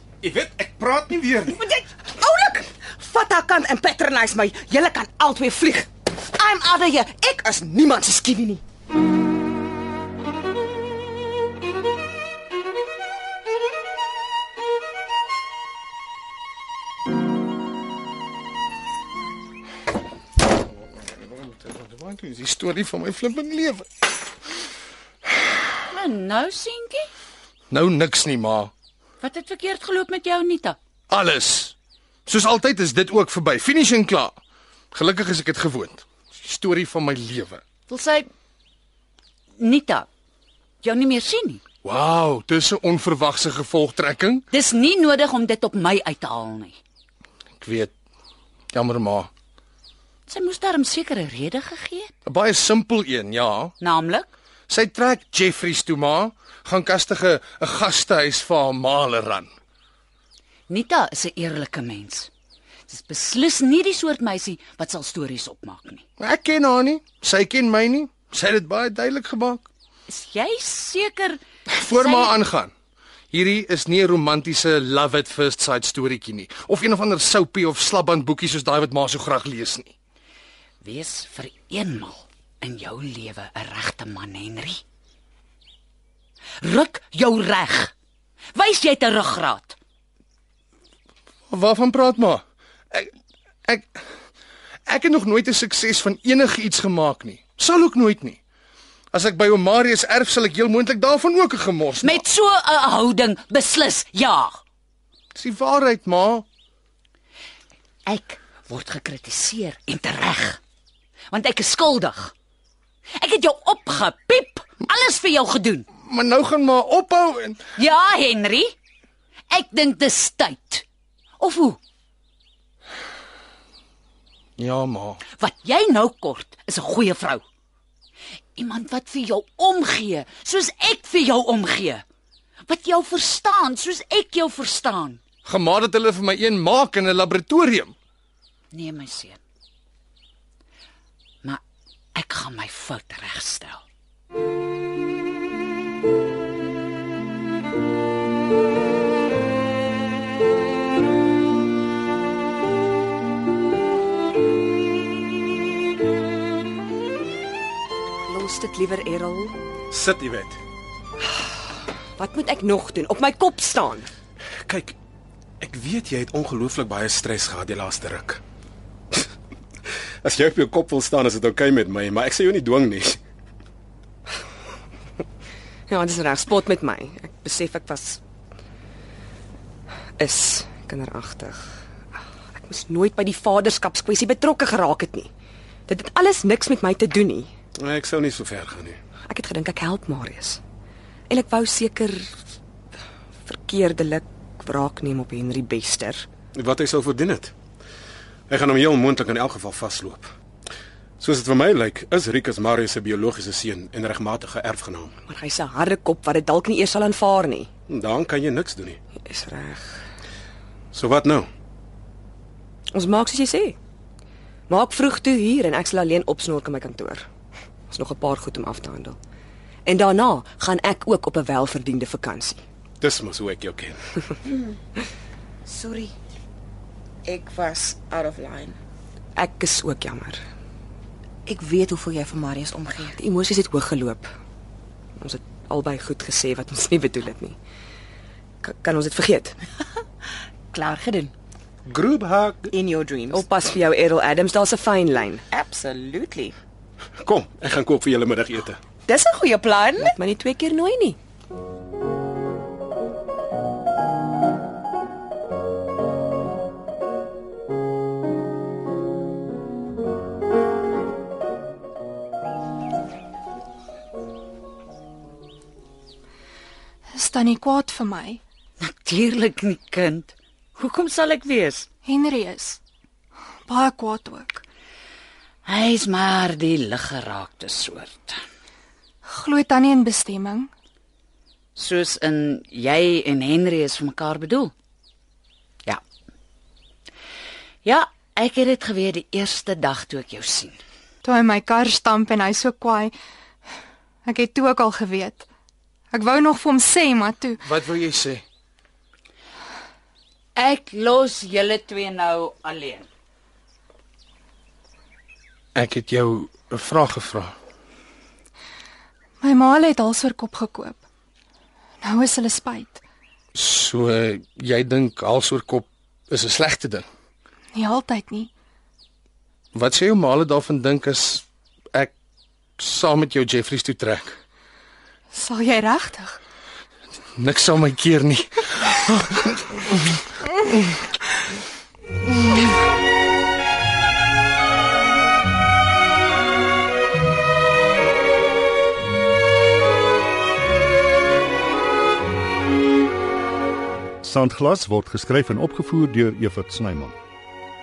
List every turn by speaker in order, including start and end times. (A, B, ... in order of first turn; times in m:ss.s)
0:00.2-0:01.6 A
0:01.6-0:08.6 B
0:20.9-0:23.9 C
0:25.9-0:27.1 D
0:27.7-0:28.7 C
0:29.2-0:30.8 D
0:31.1-0:31.8 C
0:32.3-0:34.4 C
0:34.9-0:37.6 C
0:37.9-0:38.3 D
0:39.6-0:40.1 D
0:40.8-0:41.6 D
0:41.8-0:44.5 C
0:44.5-0:46.8 D
0:47.6-0:47.9 C
0:48.7-0:49.3 C
0:50.3-0:52.1 D
0:52.3-0:53.7 C
0:53.8-0:54.3 D
0:54.7-0:59.5 C
1:00.7-1:02.3 D
1:02.9-1:06.0 D
1:06.2-1:09.6 C
1:10.1-1:12.4 D
1:11.7-1:12.7 C
1:13.3-1:19.9 C
1:20.8-1:24.8 D
1:26.6-1:27.9 D
1:28.5-1:29.8 D
1:31.5-1:33.1 C
1:33.7-1:34.0 C
1:34.9-1:38.4 C
1:39.1-1:42.2 C
1:42.0-1:44.6 D
1:45.4-1:46.4 C
1:48.1-1:50.6 D
1:51.3-1:52.3 D
1:53.2-1:55.9 D
1:56.0-1:57.6 C
1:57.8-1:58.7 D
1:59.5-2:00.8 D
2:01.4-2:01.8 D
2:04.6-2:05.2 C
2:05.4-2:07.4 D
2:08.6-2:12.0 D
2:12.7-2:15.2 D
2:15.4-2:18.0 C
2:18.7-2:19.4 D
2:22.2-2:23.8 D
2:38.3-2:39.6 E
2:39.9-2:40.6 A
2:42.2-2:44.1 E
2:44.7-2:45.0 A
2:45.6-2:48.4 A
2:50.2-2:53.2 A
2:55.9-2:58.2 E
3:00.2-3:01.7 E
3:02.5-3:05.3 E
3:05.9-3:07.5 E
3:07.8-3:09.0 A
3:09.3-3:10.6 E
3:11.3-3:12.4 E
3:13.5-3:16.3 E
3:16.6-3:17.5 A
3:18.5-3:20.3 A
3:21.2-3:25.2 A
3:25.3-3:27.7 E
3:27.9-3:29.0 A
3:29.2-3:30.0 E
3:30.9-3:31.5 A
3:32.9-3:33.8 E
3:34.7-3:37.3 E
3:37.9-3:39.2 E
3:39.8-3:42.6 E
3:43.0-3:44.0 A
3:45.7-3:46.1 B
3:47.3-3:48.8 B
3:49.4-3:50.4 E
3:51.5-3:53.1 B
3:53.1-3:54.3 E
3:55.2-3:57.6 E
3:58.6-3:59.6 E
4:00.8-4:01.3 B
4:01.9-4:02.7 A
4:02.7-4:03.4 B
4:03.3-4:05.4 E
4:05.5-4:06.6 B
4:07.2-4:08.8 A
4:09.1-4:10.1 B
4:10.0-4:11.2 E
4:27.2-4:28.4 F
4:28.8-4:31.9 D
4:32.0-4:32.8 F
4:33.7-4:34.6 F
4:35.6-4:38.4 D
4:39.3-4:40.7 F
4:41.8-4:44.7 D
4:47.8-4:50.8 D
4:51.2-4:53.1 F
4:54.2-4:55.5 F
4:56.1-4:57.6 F
4:57.6-4:58.4 C
5:00.6-5:03.1 D
5:05.8-5:07.6 C
5:09.4-5:11.0 F
5:12.0-5:13.0 F
5:13.5-5:17.0 C
5:17.7-5:18.5 F
5:19.7-5:22.1 C
5:22.8-5:24.4 C
5:25.3-5:26.4 F
5:27.4-5:30.0 C
5:44.2-5:47.2 G